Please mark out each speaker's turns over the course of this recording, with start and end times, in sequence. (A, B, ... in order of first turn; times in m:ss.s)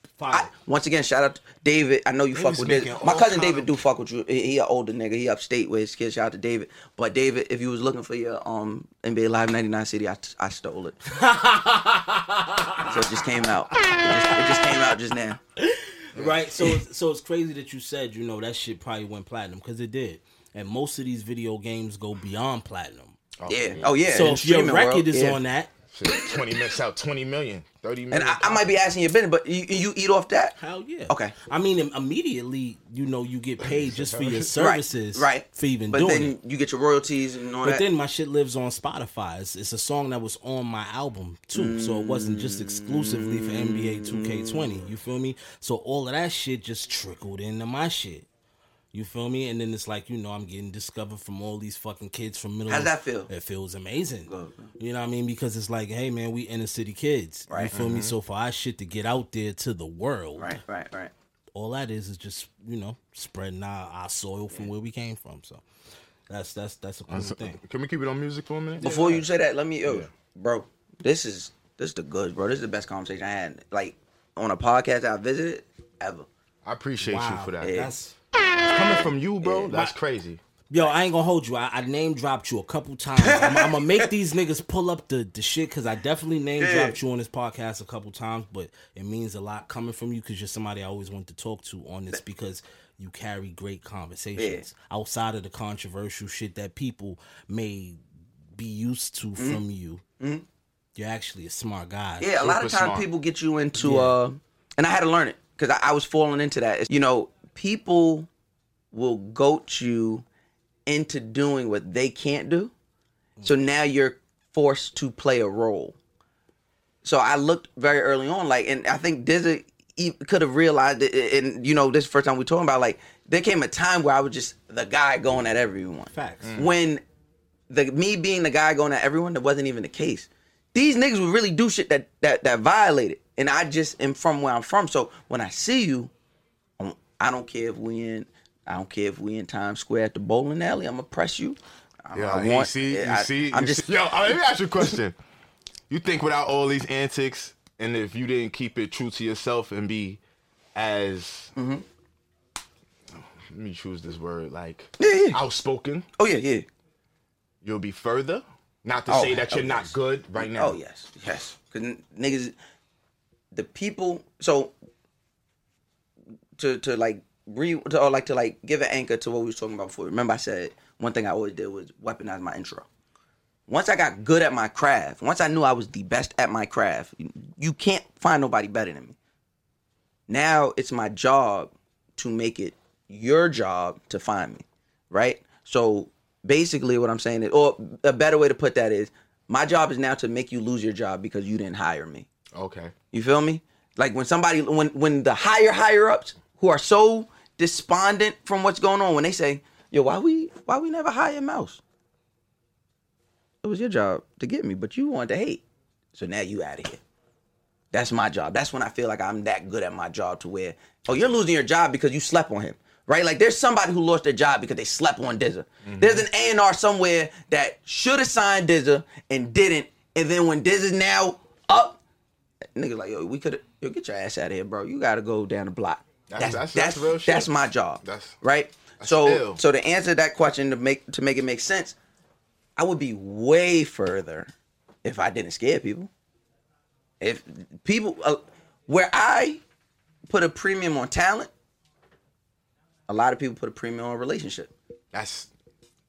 0:00.2-0:00.5 A
0:00.3-0:11.0 B
0:02.3-0:03.7 C
0:11.1-0:14.7 A
0:12.9-0:15.4 B
0:15.6-0:23.2 A
0:16.2-0:16.4 C
0:23.4-0:24.1 C
0:23.5-0:25.4 B
0:24.1-0:25.7 A
0:25.9-0:28.7 C
0:28.1-0:30.6 B
0:30.6-0:36.3 A
0:31.1-0:31.3 B
0:33.6-0:34.5 C
0:34.6-0:37.8 B
0:37.6-0:48.2 A
0:41.5-0:44.9 B
0:48.9-1:00.6 A
0:52.7-0:53.3 B
0:54.3-0:54.7 B
0:57.5-0:57.7 B
0:57.6-0:58.1 C
1:00.4-1:01.1 B
1:01.5-1:05.6 A
1:06.3-1:07.6 A
1:07.1-1:09.2 C
1:08.8-1:16.3 B
1:16.6-1:17.9 C
1:17.0-1:18.1 A
1:17.6-1:17.9 B
1:18.7-1:20.4 C
1:18.7-1:19.1 A
1:19.7-1:19.9 A
1:20.7-1:38.0 A
1:23.2-1:24.1 B
1:26.6-1:27.0 B
1:34.4-1:34.6 B
1:38.6-1:40.0 A
1:40.2-1:40.4 B
1:41.0-1:42.5 A
1:42.2-1:48.3 B
1:42.4-1:43.0 C
1:43.8-1:44.1 A
1:48.9-1:50.2 B
1:50.8-1:52.7 B
1:53.4-1:56.0 B
1:57.0-2:07.0 B
2:06.1-2:06.5 A
2:06.4-2:06.7 C
2:07.7-2:16.1 B
2:16.8-2:23.8 B
2:22.1-2:25.2 C
2:25.9-2:30.2 C
2:30.7-2:31.5 C
2:31.6-2:31.8 B
2:33.1-2:36.0 C
2:35.0-2:35.4 B
2:36.2-2:36.6 B
2:37.6-2:40.8 C
2:39.1-2:42.5 B
2:43.5-2:44.7 B
2:46.6-2:52.8 B
2:53.7-2:59.2 B
3:00.3-3:12.3 B
3:12.5-3:12.9 C
3:13.1-3:21.8 B
3:23.6-3:25.6 B
3:26.1-3:27.0 B
3:27.9-3:42.0 B
3:35.8-3:36.2 C
3:42.7-3:51.9 B
3:46.3-3:48.4 C
3:49.0-3:49.6 C
3:52.8-3:54.5 B
3:55.0-3:56.1 B
3:57.2-3:59.6 B
4:00.3-4:01.5 B
4:03.1-4:04.7 B
4:05.1-4:05.5 C